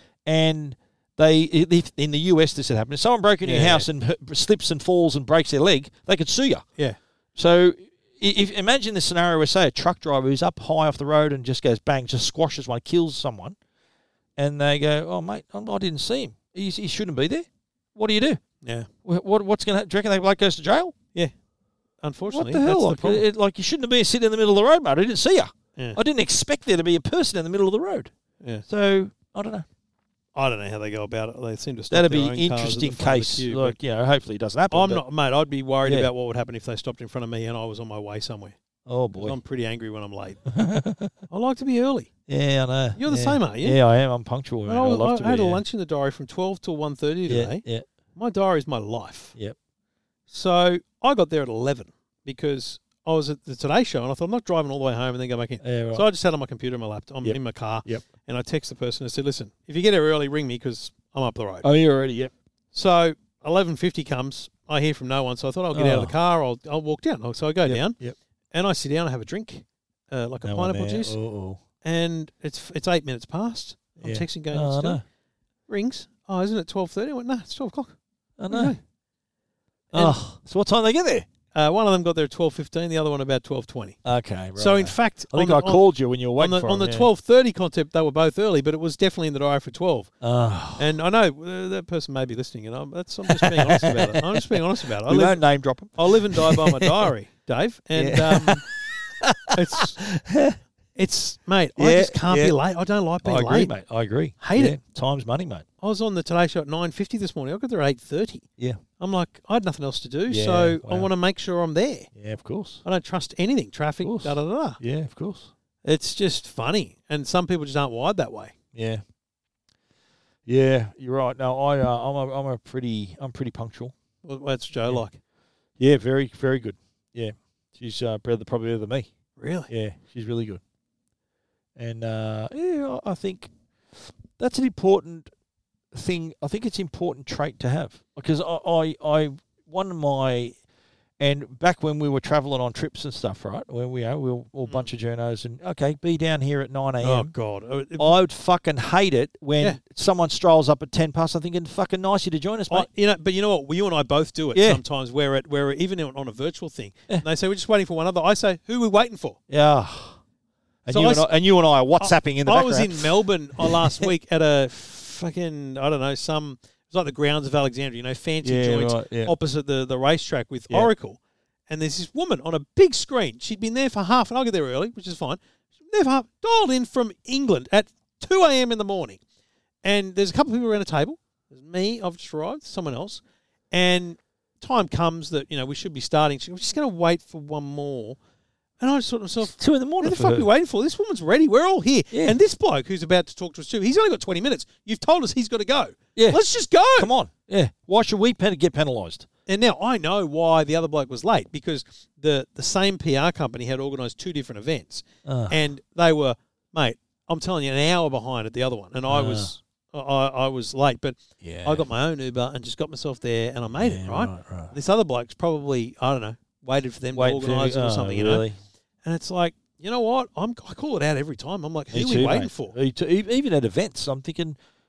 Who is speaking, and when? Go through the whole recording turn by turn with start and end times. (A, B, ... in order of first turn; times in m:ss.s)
0:00.2-0:06.6 A
0:03.4-0:03.9 B
0:07.4-0:13.6 A
0:14.4-0:18.4 A
0:18.6-0:18.9 B
0:19.0-0:20.9 A
0:22.0-0:23.2 B
0:22.3-0:28.1 A
0:28.6-0:29.6 A
0:30.3-0:33.8 B
0:31.9-0:35.0 A
0:34.7-0:38.6 B
0:35.8-0:36.1 A
0:38.9-0:39.4 A
0:39.2-0:40.4 B
0:40.4-0:41.1 A
0:41.3-0:42.1 B
0:42.3-0:45.6 A
0:43.0-0:43.8 B
0:44.7-0:47.6 B
0:47.3-0:47.8 A
0:48.2-0:49.4 B
0:50.3-1:01.7 B
0:55.6-0:56.1 A
0:57.2-0:58.0 A
1:01.6-1:02.3 A
1:02.7-1:08.0 B
1:05.7-1:06.1 A
1:07.6-1:08.2 A
1:08.5-1:11.2 B
1:10.4-1:11.6 A
1:11.8-1:15.0 B
1:14.0-1:15.0 A
1:15.7-1:18.0 B
1:18.4-1:18.8 A
1:18.5-1:18.8 B
1:19.9-1:20.2 B
1:19.9-1:21.3 A
1:21.5-1:24.0 B
1:24.0-1:27.1 A
1:24.6-1:25.8 B
1:26.4-1:30.1 B
1:30.2-1:30.9 A
1:30.8-1:35.4 B
1:33.3-1:37.1 A
1:35.9-1:38.7 B
1:38.0-1:40.6 A
1:39.5-1:40.0 B
1:41.0-1:43.7 B
1:41.8-1:42.6 A
1:43.2-1:45.6 A
1:44.4-1:44.8 B
1:45.8-1:48.5 B
1:49.0-1:52.1 B
1:50.3-1:51.1 A
1:52.2-1:52.8 A
1:52.8-1:54.8 B
1:54.0-1:55.5 A
1:55.8-1:58.6 B
1:58.7-1:59.0 A
2:00.4-2:03.9 A
2:04.2-2:05.2 B
2:05.8-2:09.1 A
2:09.4-2:09.7 B
2:09.7-2:10.6 A
2:11.8-2:15.3 A
2:15.9-2:20.6 A
2:21.2-2:27.3 A
2:27.0-2:28.2 B
2:28.0-2:32.9 A
2:32.7-2:39.4 B
2:34.5-2:34.8 A
2:39.5-2:40.2 A
2:40.8-2:44.1 A
2:40.9-2:41.3 B
2:42.0-2:59.2 B
2:48.4-2:49.3 A
2:59.8-3:08.2 B
3:08.8-3:17.1 B
3:09.5-3:10.5 A
3:12.1-3:12.4 A
3:16.2-3:16.4 A
3:17.0-3:19.3 A
3:19.5-3:38.4 B
3:25.2-3:25.6 A
3:29.1-3:29.5 A
3:31.4-3:31.8 A
3:33.8-3:34.7 A
3:37.2-3:38.6 A
3:39.0-3:42.7 B
3:41.9-3:44.6 A